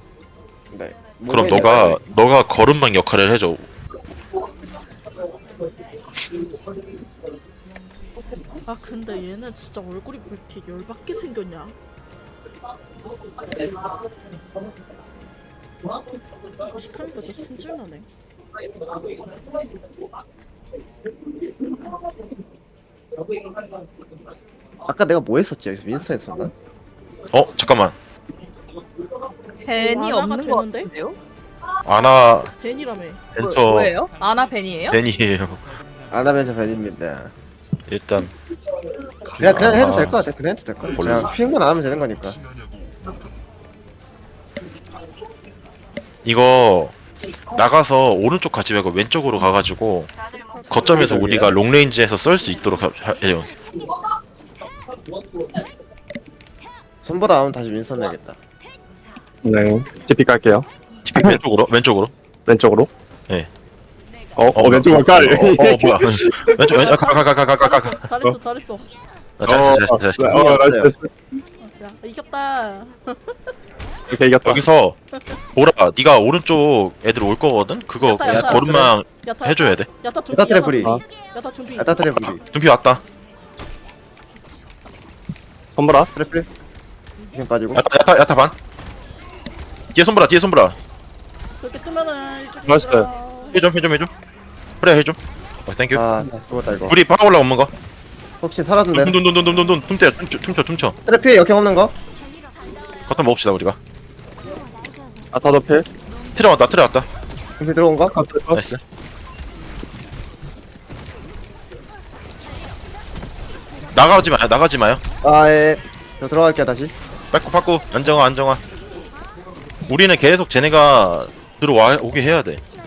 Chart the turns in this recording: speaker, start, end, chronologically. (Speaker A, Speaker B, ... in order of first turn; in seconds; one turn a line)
Speaker A: 0.7-2.0
Speaker B: 1.3-3.7
Speaker C: 8.7-11.7
Speaker C: 16.7-18.1
Speaker A: 24.9-26.5
Speaker B: 27.3-27.9
Speaker D: 29.6-31.2
Speaker C: 29.7-30.9
Speaker B: 31.8-32.5
Speaker C: 32.6-33.2
Speaker B: 33.3-33.9
Speaker D: 33.4-35.0
Speaker B: 34.9-35.6
Speaker A: 36.1-37.3
Speaker B: 37.9-38.3
Speaker B: 39.4-40.2
Speaker A: 39.4-42.4
Speaker B: 40.9-41.3
Speaker B: 46.2-46.9
Speaker B: 47.5-50.1
Speaker B: 50.7-53.5
Speaker A: 50.8-51.6
Speaker A: 57.0-58.4
Speaker E: 59.4-61.4
Speaker B: 61.0-62.1
Speaker E: 62.5-62.9
Speaker E: 64.3-66.5
Speaker B: 64.5-68.1
Speaker C: 66.5-68.9
Speaker B: 69.4-70.5
Speaker E: 69.4-71.1
Speaker A: 70.3-70.9
Speaker C: 71.6-73.4
Speaker E: 74.1-74.6
Speaker B: 74.4-75.0
Speaker B: 75.5-79.9
Speaker C: 78.0-82.0
Speaker A: 78.2-78.9
Speaker A: 80.3-81.0
Speaker A: 81.8-82.4
Speaker B: 82.2-83.0
Speaker E: 85.8-86.1
Speaker A: 86.2-86.5
Speaker A: 87.3-87.8
Speaker B: 87.7-88.5
Speaker B: 89.9-90.8
Speaker C: 91.6-93.6
Speaker E: 92.7-93.1
Speaker B: 93.5-94.1
Speaker B: 94.8-96.0
Speaker A: 95.9-97.0
Speaker B: 96.9-97.7
Speaker A: 98.4-99.2
Speaker B: 98.9-101.0
Speaker A: 101.0-101.9
Speaker B: 103.1-103.8
Speaker E: 105.3-105.8
Speaker B: 106.3-107.1
Speaker A: 107.6-108.1
Speaker E: 108.1-108.6
Speaker B: 108.5-108.8
Speaker B: 113.9-115.0
Speaker A: 115.2-116.9
Speaker B: 117.3-118.6
Speaker B: 119.9-122.6